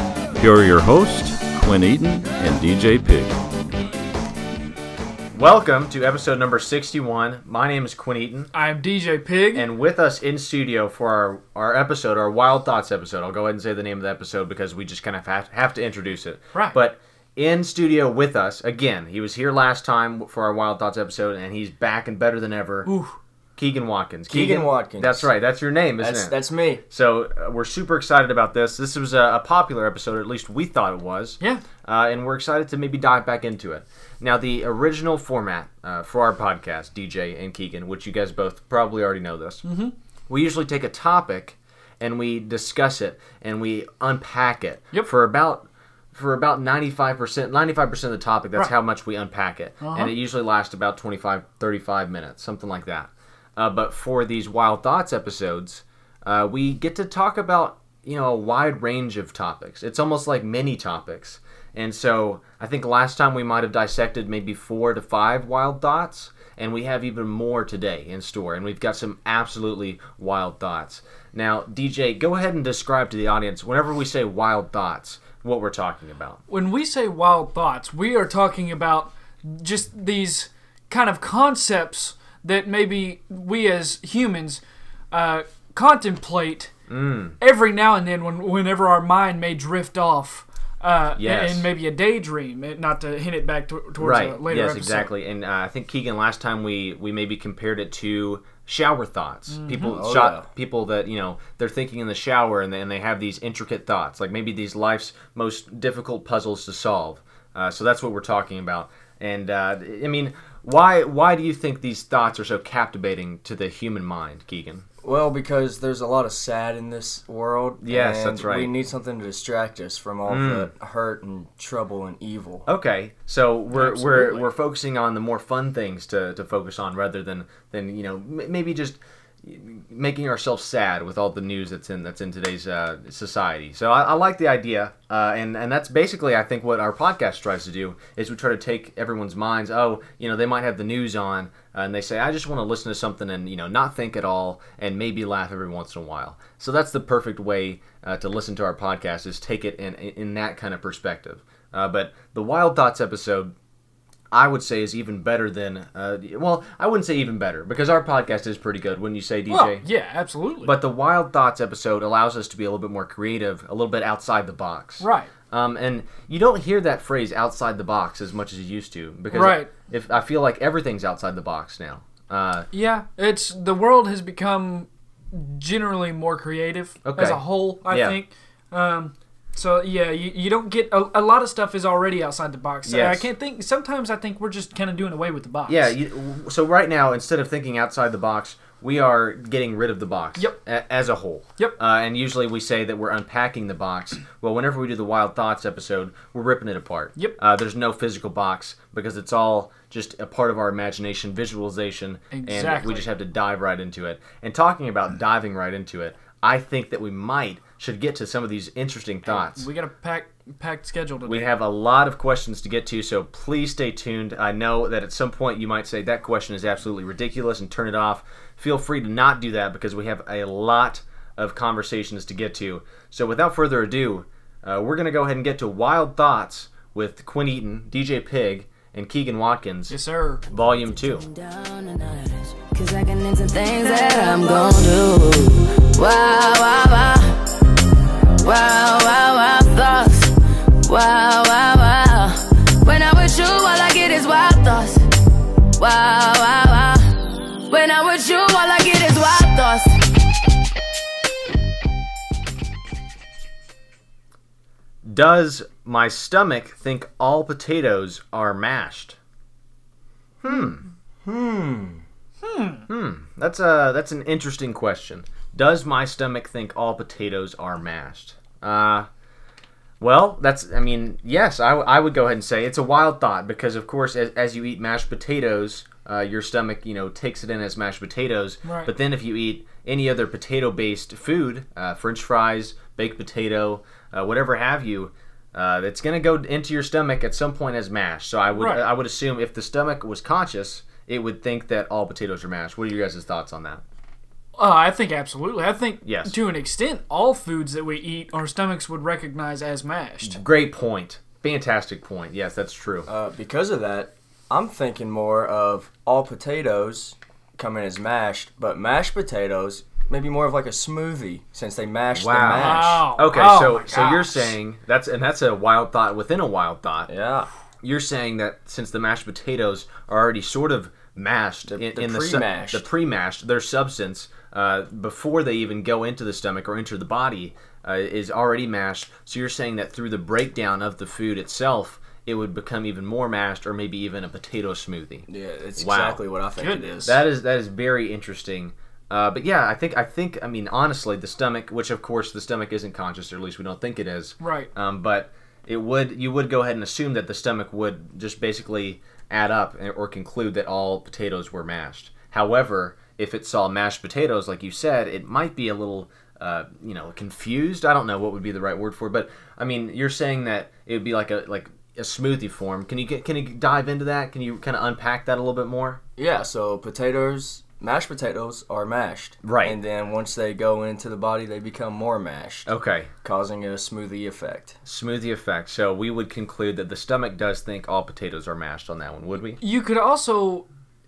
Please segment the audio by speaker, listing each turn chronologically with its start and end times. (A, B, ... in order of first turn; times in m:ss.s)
0:00.4-0:03.4 A
0:05.4-0:08.5 B
0:08.5-0:09.7 C
0:09.5-0:22.9 B
0:22.9-0:23.2 C
0:23.6-0:26.4 B
0:24.3-0:25.3 D
0:26.0-0:26.8 D
0:26.9-0:39.6 B
0:39.6-0:39.9 C
0:40.3-1:16.4 B
0:49.8-0:50.1 C
1:16.5-1:26.7 C
1:26.9-1:27.4 B
1:27.4-1:35.1 C
1:31.2-1:31.7 B
1:34.0-1:54.9 B
1:39.5-1:40.0 C
1:39.9-1:40.5 D
1:55.0-2:02.7 D
1:57.8-1:58.7 B
2:00.3-2:00.7 B
2:02.7-2:33.5 B
2:03.7-2:04.5 C
2:34.3-2:39.8 B
2:39.5-2:40.8 C
2:40.6-2:52.7 B
2:45.0-2:45.3 C
2:49.3-2:49.7 C
2:52.7-3:05.9 C
2:57.0-2:58.2 B
3:02.8-3:03.3 B
3:05.7-3:29.7 B
3:22.3-3:23.1 C
3:29.3-3:31.5 C
3:31.3-3:50.0 B
3:49.9-3:50.4 C
3:50.5-3:51.3 B
3:50.9-3:57.5 E
3:54.0-3:54.4 C
3:58.4-4:05.1 E
4:05.8-4:10.4 E
4:15.0-4:19.2 B
4:20.4-4:20.8 B
4:21.2-4:22.0 D
4:22.4-4:22.8 C
4:22.9-4:29.1 B
4:30.0-4:53.8 B
4:38.6-4:38.9 C
4:48.5-4:48.9 C
4:54.6-5:00.4 C
4:56.0-4:56.4 B
5:00.2-5:03.1 B
5:03.1-5:13.1 D
5:12.1-5:17.1 B
5:12.5-5:14.5 C
5:17.1-5:17.5 D
5:17.8-5:35.3 B
5:21.7-5:22.9 D
5:35.3-5:37.2 D
5:35.8-5:36.2 B
5:36.6-5:36.9 C
5:37.0-6:06.0 B
5:44.4-5:44.7 C
6:06.2-6:14.8 D
6:09.4-6:09.8 B
6:12.7-6:13.1 B
6:14.8-6:19.6 B
6:19.6-6:20.7 C